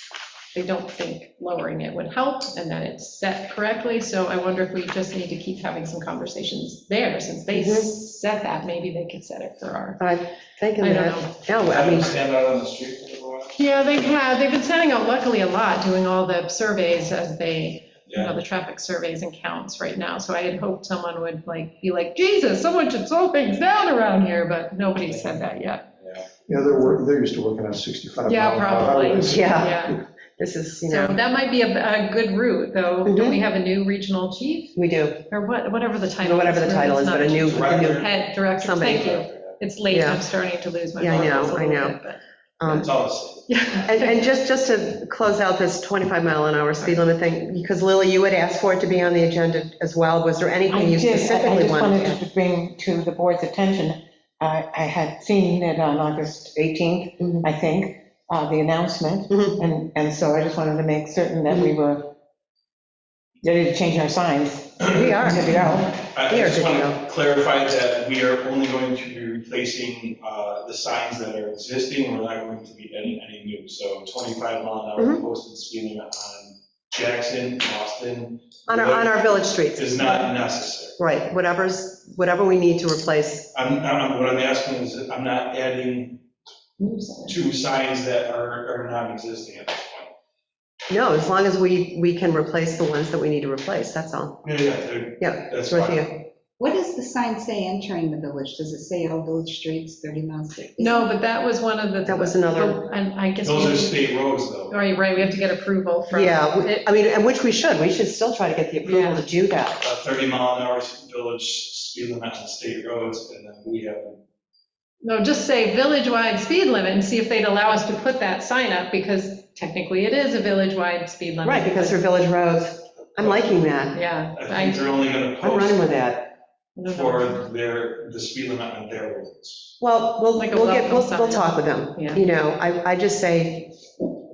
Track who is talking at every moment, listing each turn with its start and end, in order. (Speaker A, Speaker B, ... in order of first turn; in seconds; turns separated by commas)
Speaker A: 0.5-10.0, Speaker B: 7.5-7.9, Speaker B: 10.0-12.1, Speaker A: 10.8-11.4, Speaker C: 11.6-13.6, Speaker A: 13.6-25.9, Speaker C: 18.1-18.4, Speaker C: 25.0-25.5, Speaker D: 26.5-29.7, Speaker A: 28.3-30.0, Speaker B: 29.3-31.2, Speaker A: 30.8-34.8, Speaker B: 33.1-33.4, Speaker B: 34.8-35.3, Speaker A: 35.3-42.2, Speaker B: 36.2-38.0, Speaker C: 37.5-38.3, Speaker B: 38.6-39.2, Speaker C: 39.0-39.6, Speaker B: 39.9-40.2, Speaker B: 41.0-42.0, Speaker C: 41.1-41.6, Speaker B: 42.6-42.9, Speaker C: 42.7-44.1, Speaker A: 43.5-44.1, Speaker B: 43.9-52.2, Speaker E: 50.7-62.1, Speaker B: 59.3-59.6, Speaker E: 63.4-66.0, Speaker C: 64.8-65.1, Speaker B: 64.9-65.5, Speaker C: 66.1-81.0, Speaker B: 66.2-67.0, Speaker B: 75.0-75.2, Speaker B: 78.7-80.3, Speaker B: 81.0-83.5, Speaker C: 83.5-86.2, Speaker A: 86.8-87.4, Speaker C: 87.3-90.1, Speaker B: 90.9-94.5, Speaker C: 94.4-96.1, Speaker B: 95.2-96.2, Speaker F: 96.6-101.1, Speaker A: 100.8-106.8, Speaker B: 102.0-102.9, Speaker C: 103.4-104.8, Speaker B: 106.1-109.8, Speaker A: 108.8-109.2, Speaker C: 109.8-114.2, Speaker A: 115.0-122.0, Speaker B: 121.4-124.0, Speaker C: 123.2-123.5, Speaker A: 123.9-124.9, Speaker C: 124.3-126.0, Speaker B: 125.4-126.3, Speaker A: 126.8-127.5, Speaker C: 126.9-129.7, Speaker B: 129.8-133.8, Speaker A: 130.3-132.2